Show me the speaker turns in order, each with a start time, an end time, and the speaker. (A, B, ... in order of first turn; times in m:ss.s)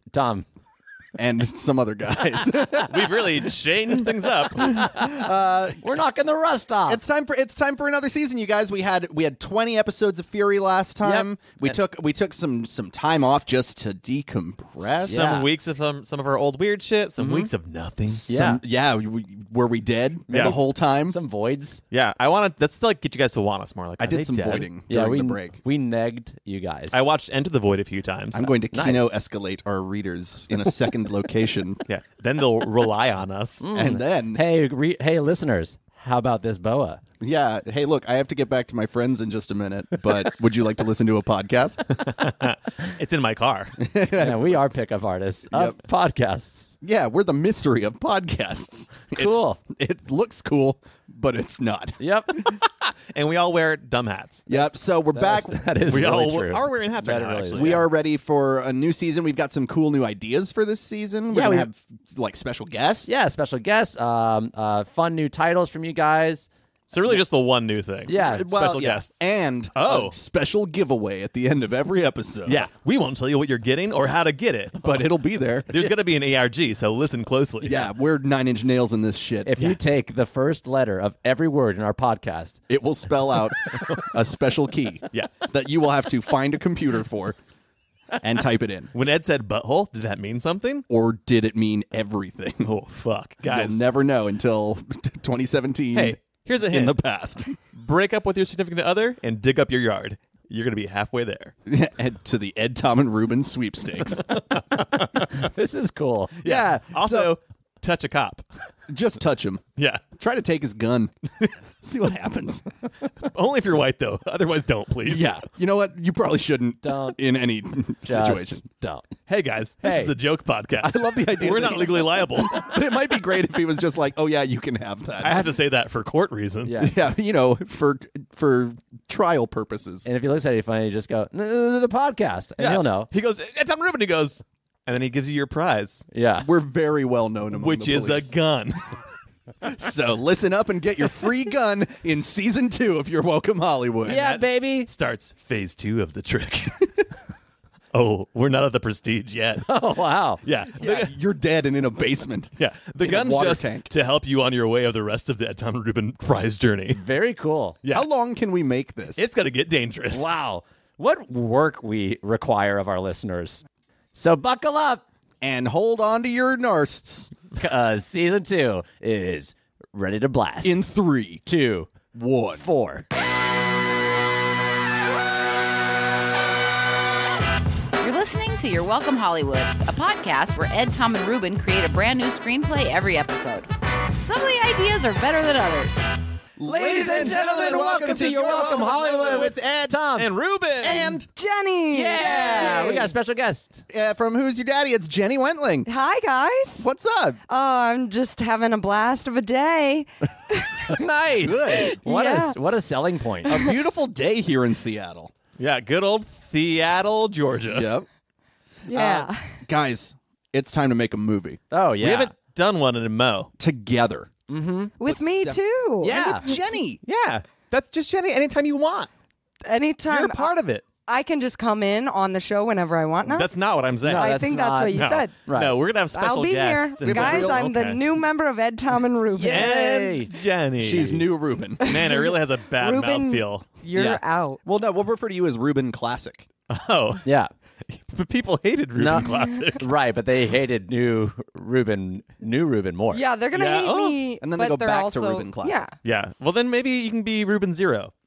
0:00.1-0:00.4 A
0:01.2-0:03.3 B
0:02.8-0:04.9 C
0:04.8-0:05.2 A
0:04.8-0:05.8 B
0:05.8-0:07.0 A
0:06.9-0:15.3 B
0:11.0-0:11.7 A
0:15.0-0:18.2 C
0:15.0-0:15.4 A
0:17.2-0:17.5 A
0:18.1-0:21.2 B
0:18.3-0:18.6 A
0:20.3-0:20.6 C
0:20.3-0:21.8 A
0:21.9-0:24.7 C
0:24.0-0:25.6 B
0:24.9-0:27.0 A
0:26.9-0:28.5 C
0:28.3-0:31.8 B
0:28.7-0:29.1 A
0:31.9-0:33.6 C
0:33.6-0:37.0 A
0:33.7-0:34.4 B
0:37.2-0:41.8 B
0:42.0-0:43.8 C
0:43.8-0:44.6 B
0:44.2-0:46.7 A
0:45.5-0:45.8 B
0:46.8-0:52.0 B
0:49.1-0:49.6 A
0:52.0-0:52.6 A
0:53.1-0:54.4 C
0:54.5-0:55.6 B
0:54.5-0:57.9 A
0:55.9-0:57.8 C
0:57.5-1:03.3 B
1:01.3-1:01.7 A
1:03.0-1:06.5 A
1:06.9-1:09.1 C
1:08.1-1:08.5 A
1:08.1-1:12.7 B
1:09.7-1:10.1 C
1:12.4-1:15.1 C
1:14.8-1:15.7 B
1:15.7-1:17.9 C
1:17.6-1:19.6 B
1:19.4-1:22.6 A
1:22.7-1:27.4 B
1:28.2-1:28.9 B
1:28.9-1:30.8 C
1:30.9-1:32.7 B
1:32.6-1:33.8 C
1:33.4-1:37.5 B
1:35.9-1:37.0 C
1:37.7-1:41.5 C
1:41.6-1:44.2 B
1:44.4-1:45.3 C
1:45.2-1:46.4 A
1:46.4-1:48.4 C
1:46.4-1:47.3 B
1:48.9-1:49.6 B
1:49.8-1:50.0 C
1:50.2-1:51.1 B
1:51.8-1:52.6 B
1:53.2-1:55.4 C
1:55.0-1:58.6 B
1:56.8-1:57.2 A
1:58.0-1:59.1 A
1:59.3-2:02.8 C
1:59.8-2:00.1 A
2:00.8-2:05.5 B
2:05.2-2:06.9 C
2:06.6-2:06.9 A
2:06.8-2:10.0 B
2:10.0-2:13.1 A
2:12.6-2:16.0 C
2:16.1-2:16.5 A
2:16.4-2:18.3 B
2:17.5-2:18.8 C
2:19.6-2:24.3 B
2:24.0-2:24.9 A
2:24.1-2:27.0 C
2:27.9-2:29.7 C
2:29.7-2:30.4 A
2:30.4-2:31.1 C
2:30.8-2:33.9 B
2:32.6-2:37.0 C
2:36.9-2:37.8 A
2:37.9-2:39.3 B
2:39.2-2:40.3 C
2:40.1-2:43.6 A
2:44.1-2:45.0 A
2:45.4-2:47.3 B
2:47.5-2:50.8 A
2:50.6-2:51.4 B
2:51.4-2:51.9 A
2:52.1-2:52.6 B
2:52.6-2:53.1 A
2:58.0-3:06.0 D
3:06.6-3:10.0 B
3:06.6-3:10.3 A
3:07.2-3:09.4 C
3:10.2-3:11.2 C
3:10.8-3:11.3 B
3:10.8-3:13.1 E
3:11.9-3:13.8 A
3:12.2-3:12.9 B
3:13.9-3:15.9 B
3:15.8-3:16.9 E
3:16.8-3:17.4 B
3:17.5-3:21.0 E
3:20.9-3:23.6 A
3:21.4-3:22.0 B
3:21.7-3:22.6 E
3:23.4-3:25.3 B
3:23.5-3:23.7 E
3:25.6-3:27.9 C
3:27.7-3:28.0 B
3:28.9-3:29.6 E
3:28.9-3:31.6 B
3:31.7-3:32.3 A
3:32.0-3:33.5 C
3:33.6-3:34.3 B
3:34.5-3:34.9 A
3:35.0-3:36.6 E
3:35.0-3:37.0 B
3:36.0-3:36.5 A
3:37.0-3:39.1 C
3:39.6-3:40.5 E
3:40.1-3:40.8 C
3:41.1-3:43.5 E
3:43.3-3:44.4 C
3:44.0-3:45.8 A
3:44.0-3:45.3 E
3:44.9-3:48.0 C
3:46.1-3:50.2 E
3:47.0-3:47.7 B
3:49.3-3:50.3 A
3:49.5-3:51.2 C
3:50.8-3:52.0 B
3:51.8-3:53.7 C
3:51.8-3:54.6 E
3:53.9-3:56.5 B
3:56.7-3:57.2 C
3:57.2-3:57.5 A
3:57.9-3:59.9 C
3:59.0-4:03.2 A
4:03.1-4:05.9 E
4:03.5-4:04.2 C
4:04.4-4:05.8 B
4:06.0-4:08.1 C